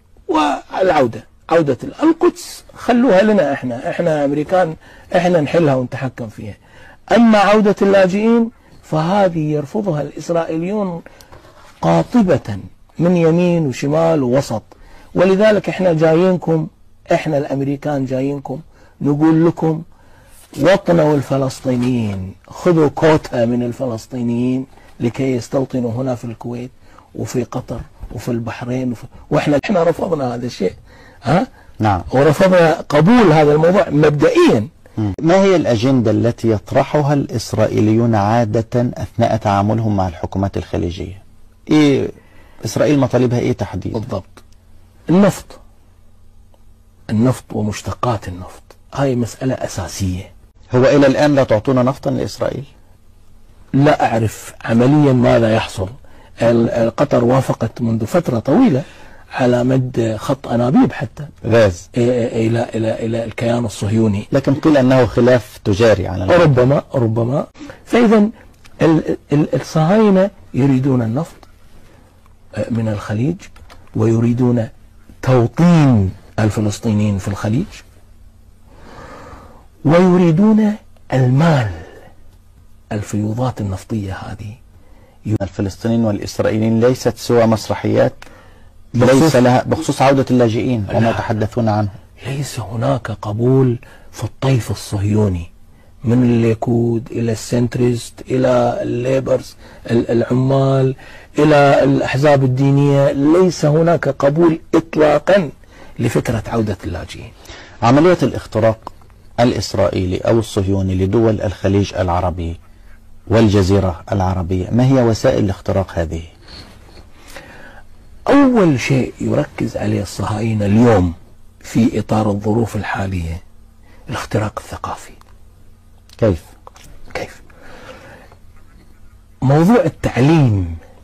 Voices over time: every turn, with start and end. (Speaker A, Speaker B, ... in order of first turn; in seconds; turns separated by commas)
Speaker A: 0.3-6.6, Speaker A: 7.1-11.0, Speaker A: 11.8-19.8, Speaker A: 20.6-31.5, Speaker B: 31.8-32.1, Speaker A: 32.1-34.7, Speaker B: 35.0-42.1, Speaker B: 42.6-44.0, Speaker A: 43.9-44.4, Speaker A: 45.1-45.6, Speaker A: 47.1-50.3, Speaker B: 50.7-52.7, Speaker A: 53.7-61.3, Speaker B: 61.4-61.9, Speaker A: 61.9-64.3, Speaker B: 64.3-66.5, Speaker A: 66.3-68.3, Speaker A: 68.8-71.5, Speaker A: 72.6-74.7, Speaker A: 75.2-77.8, Speaker A: 79.8-82.0, Speaker A: 82.9-84.6, Speaker B: 85.4-88.2, Speaker A: 88.9-89.4, Speaker B: 89.0-91.9, Speaker A: 90.9-91.2, Speaker A: 92.2-95.5, Speaker A: 96.0-107.3, Speaker B: 107.8-112.6, Speaker B: 113.3-116.3, Speaker A: 118.3-123.4, Speaker A: 124.1-125.2, Speaker B: 126.2-126.5, Speaker A: 127.1-127.4, Speaker A: 129.4-130.8